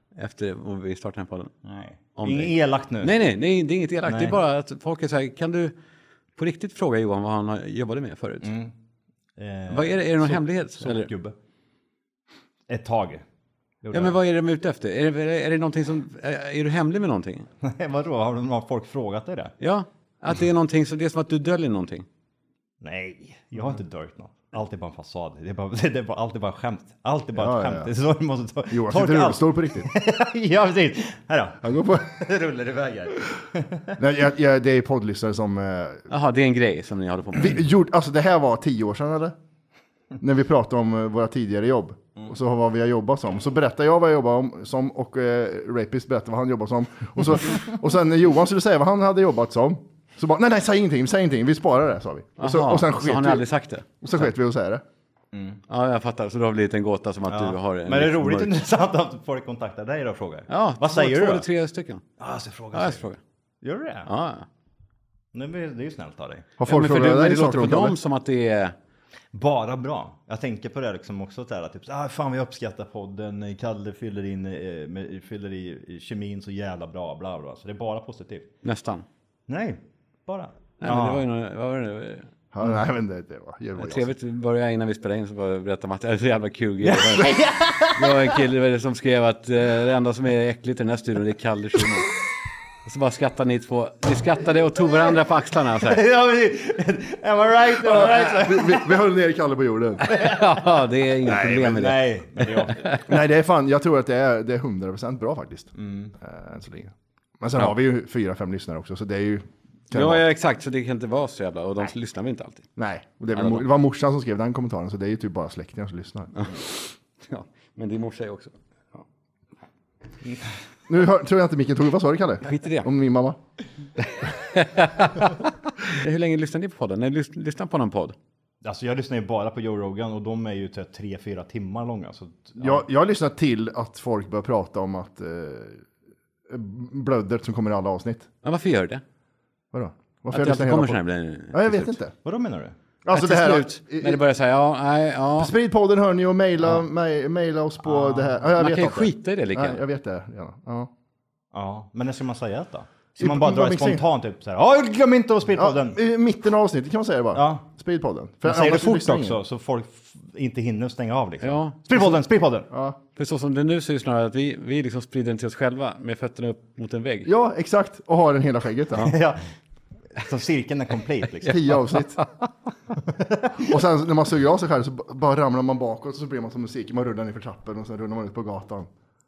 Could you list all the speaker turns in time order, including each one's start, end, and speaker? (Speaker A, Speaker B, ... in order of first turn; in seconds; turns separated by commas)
Speaker A: 0.1-1.5, Speaker B: 1.6-3.1, Speaker A: 2.1-5.7, Speaker B: 4.0-4.4, Speaker A: 6.3-8.5, Speaker B: 8.4-8.7, Speaker B: 9.4-11.3, Speaker A: 9.7-11.1, Speaker B: 12.7-13.2, Speaker B: 13.8-14.2, Speaker A: 13.9-17.5, Speaker B: 17.6-19.5, Speaker A: 19.6-22.1, Speaker B: 22.8-34.0, Speaker C: 27.4-27.9, Speaker C: 28.7-29.9, Speaker C: 31.6-32.1, Speaker C: 34.0-36.0, Speaker A: 36.1-37.6, Speaker C: 37.3-39.3, Speaker C: 40.2-53.4, Speaker A: 52.4-54.0, Speaker C: 54.0-54.8, Speaker B: 55.3-55.6, Speaker A: 55.7-58.6, Speaker B: 57.3-61.5, Speaker A: 60.5-62.0, Speaker B: 62.2-63.0, Speaker A: 62.7-63.2, Speaker B: 63.6-64.1, Speaker A: 64.0-64.5, Speaker B: 65.3-66.5, Speaker C: 66.6-68.0, Speaker A: 66.7-68.7, Speaker B: 69.3-78.5, Speaker A: 78.6-79.0, Speaker B: 79.5-81.2, Speaker A: 80.8-82.3, Speaker C: 82.5-84.1, Speaker A: 83.8-92.1, Speaker B: 86.8-88.4, Speaker A: 92.8-96.0, Speaker B: 95.8-99.0, Speaker C: 97.8-100.1, Speaker A: 100.0-103.0, Speaker B: 100.1-100.7, Speaker B: 101.2-103.0, Speaker C: 101.3-101.6, Speaker C: 103.0-110.2, Speaker B: 105.8-106.1, Speaker A: 109.9-112.7, Speaker C: 112.8-116.5, Speaker A: 113.3-113.6, Speaker A: 116.4-116.6, Speaker A: 117.2-119.0, Speaker C: 120.9-123.4, Speaker A: 122.4-122.9, Speaker A: 124.0-128.2, Speaker B: 128.6-132.8, Speaker C: 132.6-135.8, Speaker C: 136.5-138.3, Speaker A: 138.4-139.0, Speaker C: 139.7-142.1, Speaker A: 140.3-142.0, Speaker B: 142.2-142.7, Speaker C: 143.0-144.2, Speaker A: 143.1-145.5, Speaker C: 145.4-150.9, Speaker B: 147.8-148.4, Speaker A: 148.6-149.8, Speaker B: 151.5-156.0, Speaker C: 153.2-154.0, Speaker C: 155.5-159.4, Speaker B: 157.3-157.7, Speaker B: 158.4-162.7, Speaker A: 161.4-161.8, Speaker C: 162.7-163.0, Speaker A: 163.2-167.3, Speaker C: 167.2-169.1, Speaker B: 169.0-169.4, Speaker B: 170.1-172.0, Speaker C: 171.4-172.2, Speaker B: 172.9-173.8, Speaker C: 173.6-178.9